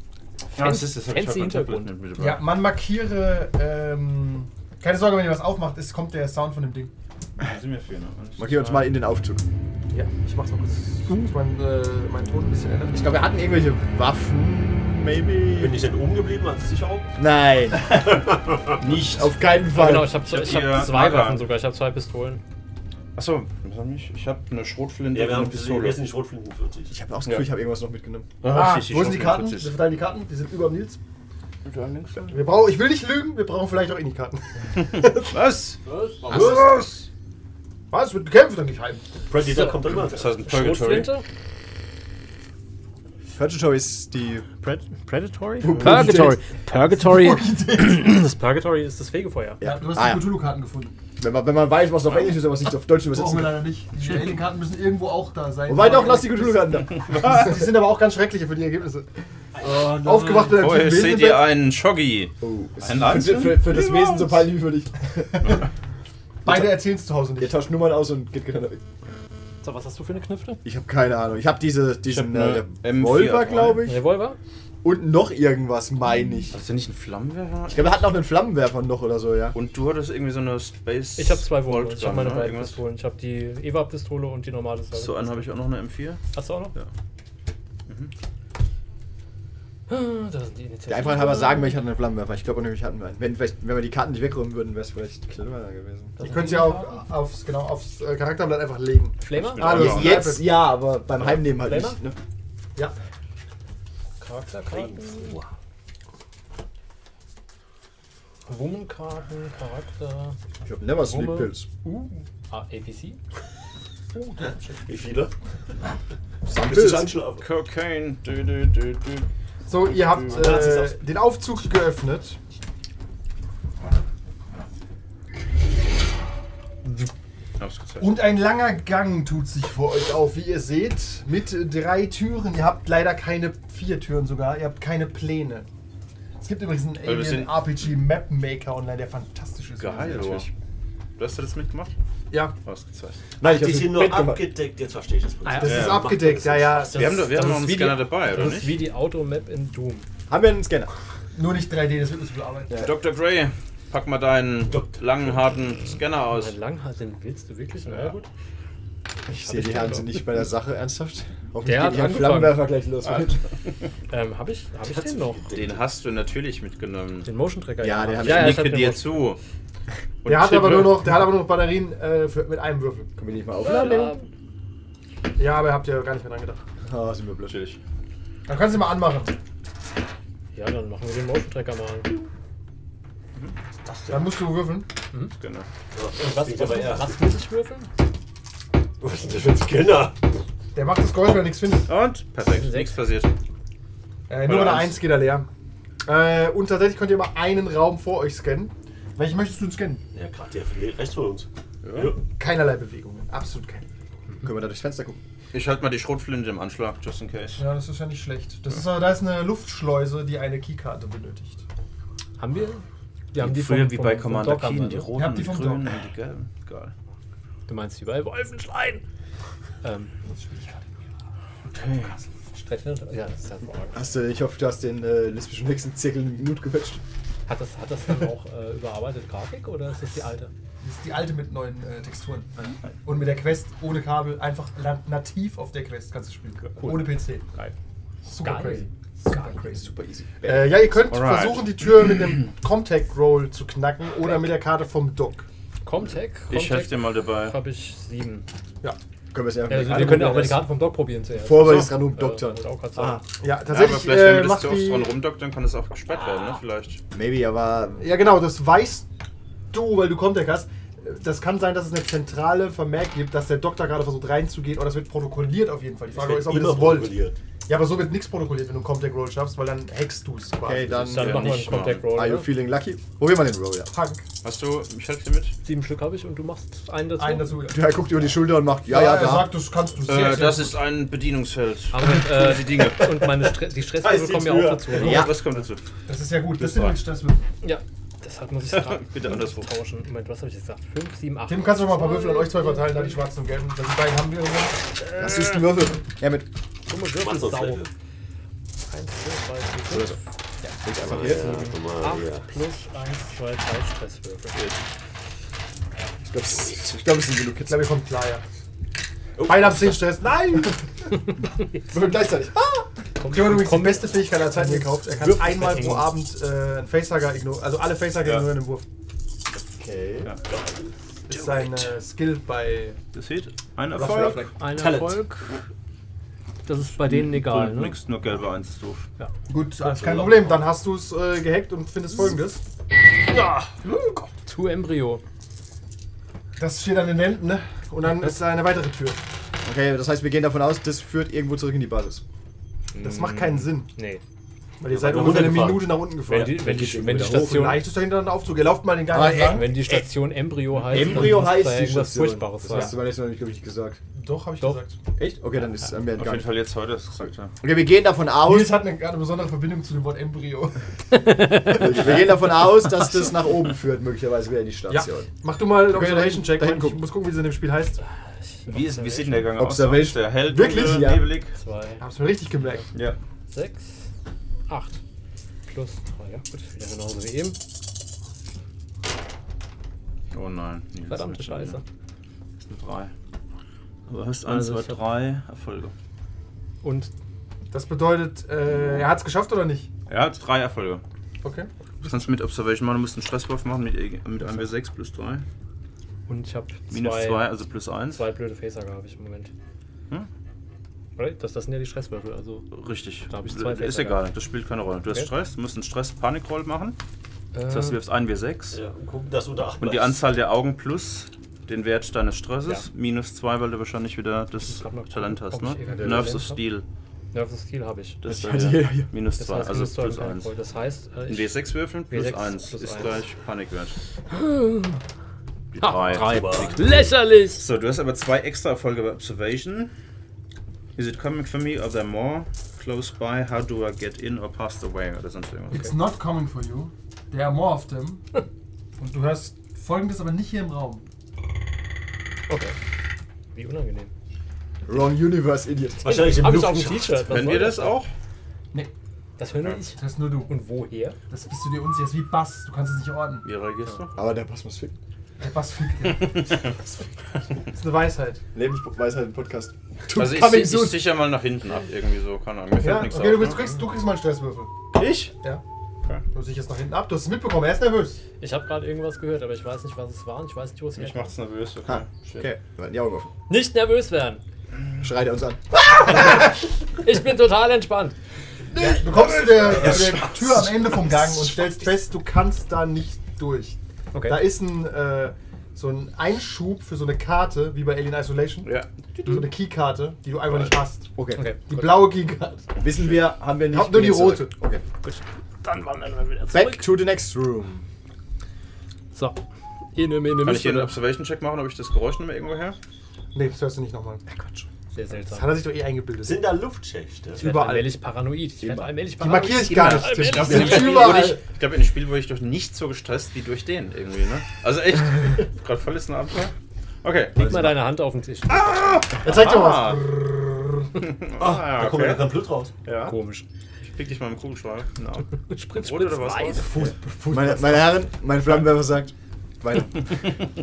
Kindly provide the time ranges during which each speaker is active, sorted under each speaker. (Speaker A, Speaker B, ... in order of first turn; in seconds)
Speaker A: 0.5-2.4, 7.4-8.9, 20.1-21.5, 23.1-26.0, 27.3-27.5, 28.4-29.7, 31.6-32.4, 35.2-37.1, 39.9-41.1, 45.6-45.9, 52.0-52.4, 56.9-57.6, 60.5-64.5, 72.0-73.9, 76.5-78.0, 79.5-82.8, 84.9-86.2, 99.4-100.4, 117.4-119.3, 127.6-128.2, 137.0-137.7, 139.8-140.5, 141.2-141.9, 142.6-143.2, 145.6-146.0, 146.9-148.8, 152.8-156.5, 157.8-158.1, 165.5-167.3, 168.2-169.4, 170.2-171.1, 177.5-177.8, 185.3-185.7, 191.9-193.3, 194.4-195.0, 201.8-202.1, 205.5-207.6, 213.3-216.9, 221.6-222.2, 240.9-242.2, 246.5-247.6, 251.6-251.9, 253.7-257.0, 271.2-272.0, 274.4-275.5, 280.1-283.1, 284.9-285.8, 286.6-287.0, 288.7-289.7, 304.5-304.8, 318.2-318.5, 323.1-324.5, 327.0-329.1, 350.9-351.3, 356.1-357.5, 368.7-371.5, 380.3-381.8, 382.6-383.1, 384.1-385.9, 390.1-391.0, 392.0-395.4, 396.9-398.2, 402.7-407.0, 407.7-408.8, 409.8-416.8, 418.2-420.5, 421.3-423.9, 425.8-426.6, 427.5-429.9, 430.9-435.9, 447.3-448.1, 453.4-454.1, 456.2-456.6, 460.1-463.6, 464.9-465.3, 470.9-472.5, 479.0-480.2, 500.4-502.8, 509.7-517.7, 518.5-520.0, 521.0-522.2, 522.8-523.2, 523.8-526.8
Speaker B: 0.6-1.9, 19.7-22.4, 40.5-41.2, 44.6-49.6, 69.6-70.6, 73.8-74.4, 81.2-85.4, 86.3-86.7, 89.9-91.8, 96.2-97.0, 99.2-99.7, 101.3-102.0, 104.2-105.4, 108.5-110.4, 111.0-111.5, 112.5-113.2, 145.4-145.8, 146.9-150.1, 156.2-158.3, 159.3-160.2, 161.6-162.7, 164.1-165.5, 167.2-169.2, 173.6-174.3, 180.5-182.1, 186.3-187.9, 192.4-192.9, 212.4-215.1, 217.7-219.0, 219.8-220.1, 222.6-224.0, 227.5-230.5, 236.7-237.7, 238.4-238.9, 245.8-248.4, 249.7-253.2, 271.0-272.5, 275.6-277.6, 281.9-285.3, 287.6-293.2, 295.2-295.5, 296.9-297.9, 298.9-304.6, 311.4-311.9, 313.2-316.1, 324.6-325.6, 326.6-327.9, 333.3-333.7, 334.4-335.2, 342.9-344.2, 346.2-347.8, 349.2-352.9, 361.1-362.0, 368.5-369.5, 371.5-372.0, 373.5-374.1, 374.7-375.0, 375.6-377.6, 381.1-381.8, 384.4-385.0, 386.8-387.1, 396.3-397.5, 398.1-399.5, 401.2-402.7, 403.3-404.2, 407.5-408.0, 414.6-416.6, 417.3-418.2, 419.4-421.6, 422.1-423.2, 424.3-425.0, 425.8-427.6, 442.5-442.8, 443.5-444.1, 446.1-448.0, 449.4-451.2, 468.4-471.3, 473.5-474.4, 476.1-476.4, 476.9-478.2, 484.1-484.4, 491.3-492.1, 495.0-496.9, 499.1-499.4, 499.9-501.0, 504.9-505.6, 507.4-511.3, 517.4-519.0, 523.0-523.4, 525.4-526.7
Speaker C: 2.2-6.9, 9.9-13.0, 28.4-31.0, 32.3-35.4, 36.3-36.9, 37.9-39.1, 46.9-48.2, 49.6-51.0, 53.1-59.1, 59.6-61.5, 65.2-65.6, 66.4-67.6, 96.2-100.5, 111.8-112.2, 114.1-114.7, 119.7-122.4, 128.0-135.7, 136.4-140.5, 145.6-147.2, 151.3-152.9, 170.2-173.1, 175.3-176.6, 178.5-179.3, 184.1-184.9, 190.7-191.9, 194.3-195.5, 196.0-200.0, 202.3-203.8, 207.6-211.6, 215.1-216.0, 220.2-220.8, 230.8-237.4, 238.2-239.8, 240.4-245.5, 253.4-255.1, 258.0-259.1, 259.7-271.1, 273.9-274.2, 277.2-277.8, 278.7-280.8, 286.1-287.4, 291.5-294.8, 307.6-308.4, 309.4-310.8, 313.2-318.8, 321.3-323.0, 324.0-324.5, 329.5-332.6, 336.6-339.2, 343.0-343.9, 344.8-349.7, 354.1-355.0, 358.4-360.8, 364.9-368.0, 372.0-372.9, 387.7-389.9, 391.4-391.7, 435.7-438.2, 439.0-441.0, 450.0-450.5, 451.3-453.5, 455.4-456.7, 457.7-458.4, 460.1-461.0, 462.8-464.7, 466.3-468.2, 478.7-491.1, 491.7-492.8, 493.6-494.5, 503.3-504.2, 505.2-506.6, 507.4-507.9, 509.2-511.4, 519.2-520.9, 526.6-527.9
Speaker D: 8.4-9.4, 12.9-15.8, 17.1-20.1, 26.9-28.3, 43.3-44.5, 45.6-46.4, 49.6-50.4, 51.2-53.7, 55.7-57.5, 62.4-65.3, 66.4-68.8, 70.6-74.0, 74.8-76.6, 77.7-79.6, 90.9-96.2, 99.6-102.2, 110.6-111.7, 116.5-117.2, 143.4-144.5, 150.3-150.9, 152.7-152.9, 159.3-163.4, 167.8-168.7, 173.2-174.1, 176.8-177.6, 204.4-205.2, 223.9-227.0, 239.5-240.8, 249.3-250.7, 251.4-253.3, 257.1-258.1, 270.6-273.9, 277.7-279.5, 284.9-285.4, 295.1-296.5, 299.9-300.2, 300.8-301.7, 306.3-307.8, 311.9-312.8, 319.6-320.3, 324.0-324.4, 339.6-342.2, 346.3-347.8, 349.1-349.9, 350.9-354.0, 355.2-356.5, 357.6-358.8, 361.6-365.3, 365.8-367.0, 369.6-371.4, 415.9-416.3, 418.2-419.1, 444.9-446.3, 454.1-455.0, 458.5-460.3, 471.9-473.3, 475.0-476.1, 491.1-491.5, 492.8-494.8, 496.5-497.8, 504.3-504.7, 508.6-508.9, 527.3-530.1
Speaker E: 15.5-17.1, 17.9-18.8, 25.1-26.9, 39.3-40.3, 59.5-60.5, 104.7-105.5, 114.4-115.3, 116.5-117.5, 120.3-121.0, 143.4-147.0, 154.7-155.6, 164.9-165.8, 183.9-184.3, 185.9-187.2, 189.0-190.2, 200.1-202.2, 266.1-267.4, 284.0-285.2, 297.1-297.9, 301.1-302.5, 309.4-309.9, 320.5-320.9, 324.6-325.2, 329.8-330.6, 344.9-346.0, 408.7-410.2, 425.8-427.1, 446.0-447.3, 479.8-480.2, 506.2-507.4, 521.4-522.7